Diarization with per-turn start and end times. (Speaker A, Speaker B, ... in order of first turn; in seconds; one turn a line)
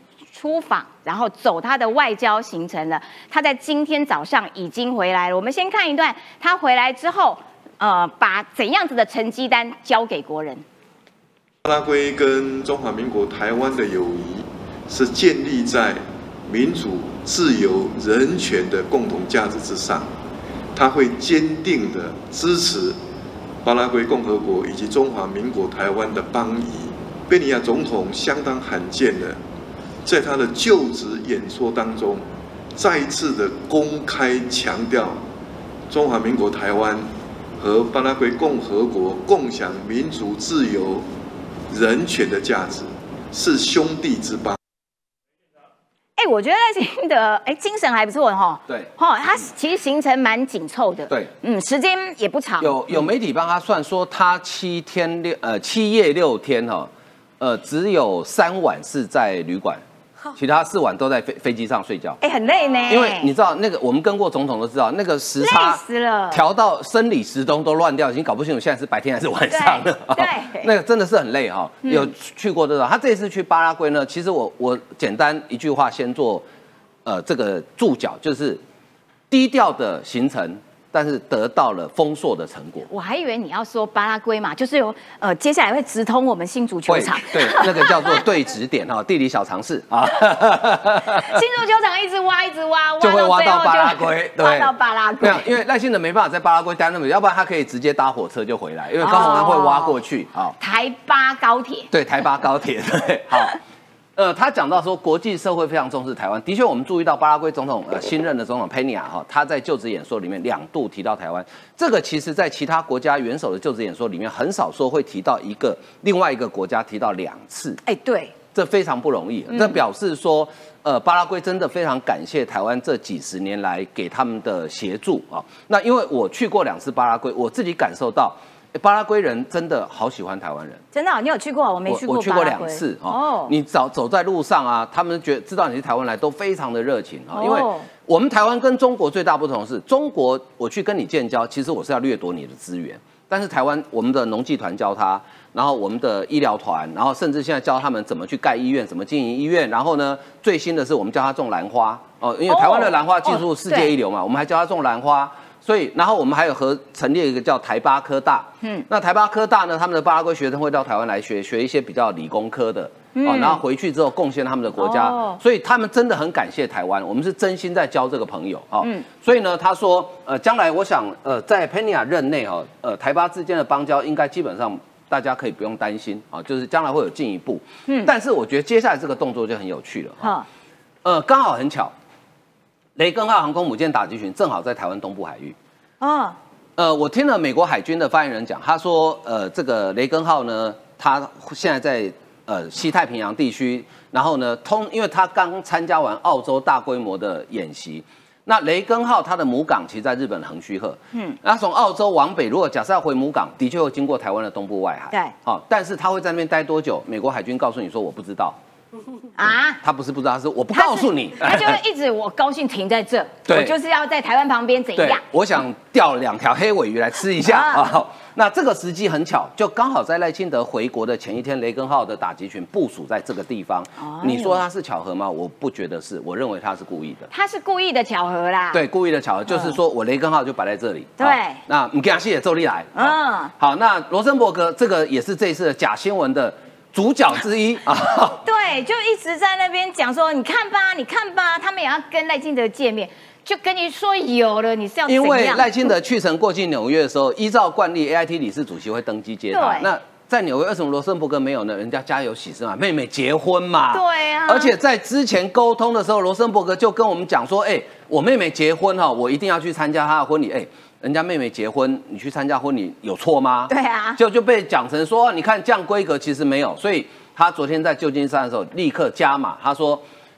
Speaker A: 0.3-10.6
Speaker B: 11.7-20.1
Speaker B: 20.8-23.0
Speaker B: 23.6-29.4
Speaker B: 30.1-35.2
Speaker B: 35.9-41.0
Speaker B: 41.7-44.6
Speaker A: 46.2-52.8
Speaker C: 52.6-59.8
Speaker C: 60.4-62.2
Speaker A: 62.2-63.3
Speaker C: 62.9-76.5
Speaker A: 65.4-66.4
Speaker A: 69.5-70.7
Speaker A: 71.8-72.1
Speaker C: 77.0-78.6
Speaker C: 79.3-82.9
Speaker A: 82.9-88.2
Speaker C: 86.9-91.4
Speaker A: 91.1-95.5
Speaker C: 93.0-100.6
Speaker A: 99.0-100.0
Speaker A: 100.6-101.9
Speaker C: 101.9-103.6
Speaker C: 104.2-117.8
Speaker A: 117.9-118.3
Speaker C: 118.5-130.8
Speaker A: 119.5-119.8
Speaker A: 130.9-133.5
Speaker C: 131.9-180.3
Speaker A: 137.3-137.9
Speaker A: 152.5-153.9
Speaker A: 163.2-163.6
Speaker A: 164.8-165.4
Speaker A: 177.9-178.1
Speaker A: 180.2-180.5
Speaker C: 181.0-181.9
Speaker C: 183.0-185.6
Speaker A: 186.0-186.4
Speaker C: 186.8-208.6
Speaker A: 209.4-209.8
Speaker C: 209.4-211.8
Speaker A: 210.7-215.2
Speaker C: 213.5-213.8
Speaker C: 215.0-227.3
Speaker A: 217.4-217.9
Speaker A: 224.0-224.6
Speaker A: 227.3-228.8
Speaker C: 228.7-238.4
Speaker A: 229.5-229.8
Speaker A: 231.2-231.6
Speaker A: 232.9-233.5
Speaker A: 238.3-245.7
Speaker C: 245.1-270.0
Speaker A: 249.5-249.9
Speaker A: 253.9-254.7
Speaker A: 263.7-264.2